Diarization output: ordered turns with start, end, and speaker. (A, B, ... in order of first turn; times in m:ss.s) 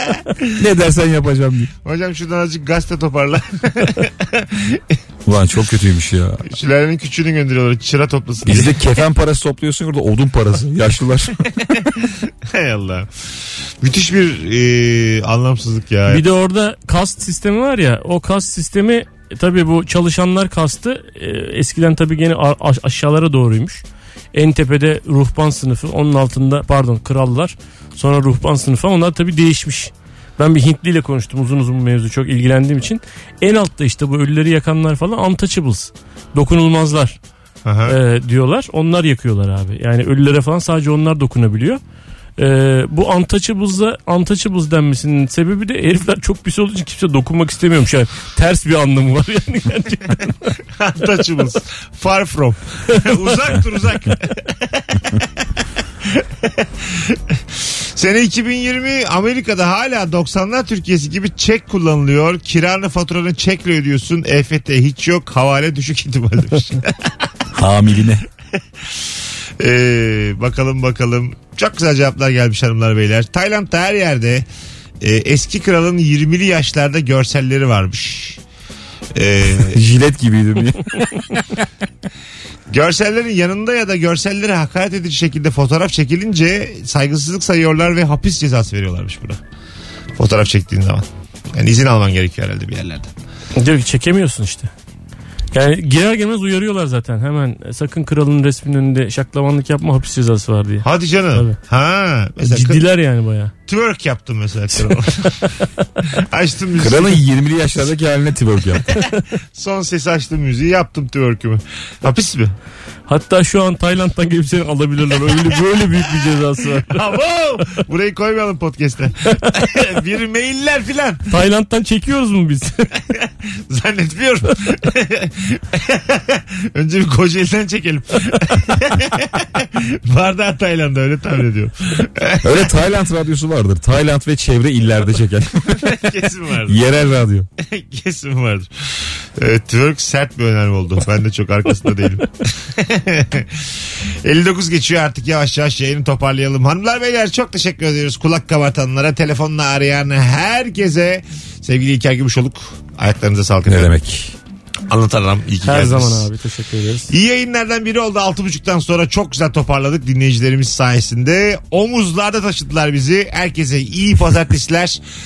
0:00.5-0:01.7 A
0:01.8-0:04.8 B
0:05.2-0:06.4 A
0:06.4-0:08.8 B
0:08.4-0:11.7 A
0:12.4-0:13.1 B
0:13.8-0:16.2 B
0:16.1-0:37.2 C
0:37.6-0:38.0 B
0:37.8-0:41.8 C
0:42.4-0:50.6 C
0:50.8-0:55.0 B
0:56.0-1:07.1 B
1:07.5-1:08.2 A
1:09.6-1:14.4 B
1:15.0-1:18.4 B
1:19.1-1:19.8 B
1:19.7-1:21.2 A
1:22.7-1:29.4 B
1:30.2-1:33.1 B
1:33.6-1:34.7 C
1:35.5-1:41.6 C
1:40.8-1:42.8 B
1:42.4-1:43.5 C
1:43.7-1:45.5 B
1:46.1-1:47.2 B
1:46.8-1:48.9 A
1:49.5-1:52.5 B
1:53.1-1:57.0 C
1:56.9-2:01.2 B
2:01.3-2:03.0 C
2:03.2-2:12.7 B
2:12.4-2:15.9 A
2:15.8-2:16.8 B
2:16.7-2:17.5 A
2:17.6-2:33.9 B
2:33.7-2:34.3 A
2:34.9-2:36.3 B
2:35.6-2:37.1 C
2:37.1-2:45.0 B